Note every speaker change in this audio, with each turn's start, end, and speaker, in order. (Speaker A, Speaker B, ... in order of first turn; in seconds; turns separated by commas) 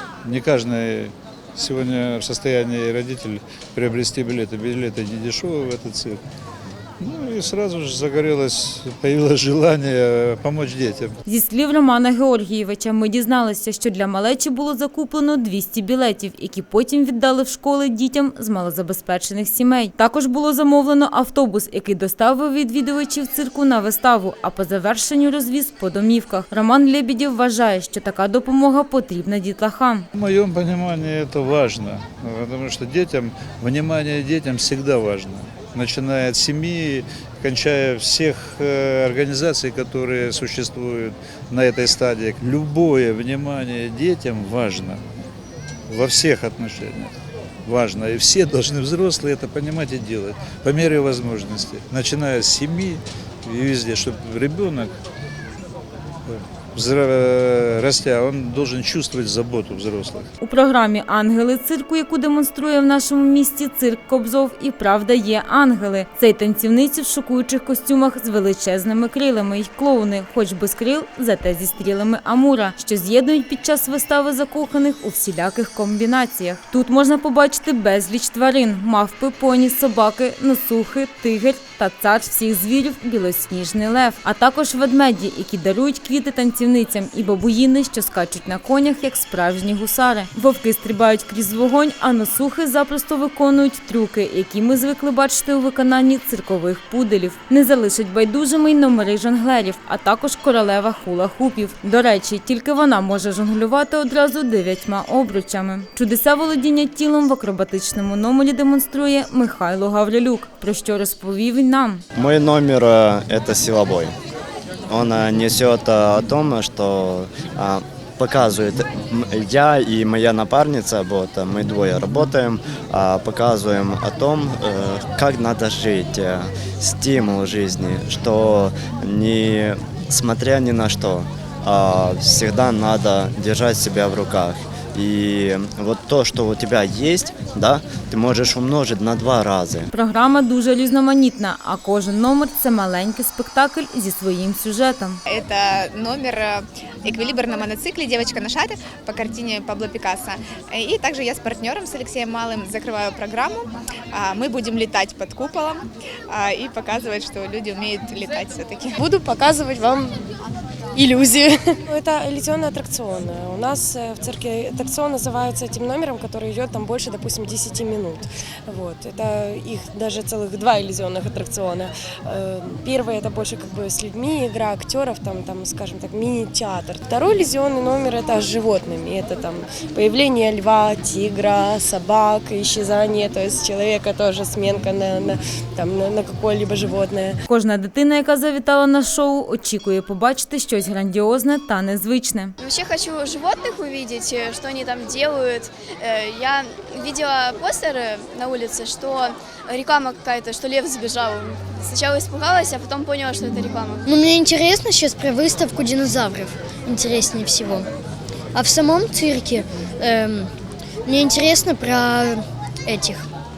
Speaker A: 0.2-6.2, Speaker A: 7.0-11.2, Speaker B: 11.3-30.1, Speaker A: 30.1-45.0, Speaker A: 45.9-47.1, Speaker A: 47.6-54.9, Speaker A: 56.3-60.3, Speaker B: 60.4-112.0, Speaker C: 112.2-114.1, Speaker C: 114.9-139.9, Speaker B: 139.9-145.2, Speaker D: 145.3-159.0, Speaker E: 158.9-160.2, Speaker E: 160.9-187.4, Speaker B: 187.5-192.6, Speaker F: 192.6-204.1, Speaker G: 204.1-207.9, Speaker G: 208.5-210.5, Speaker G: 211.1-213.3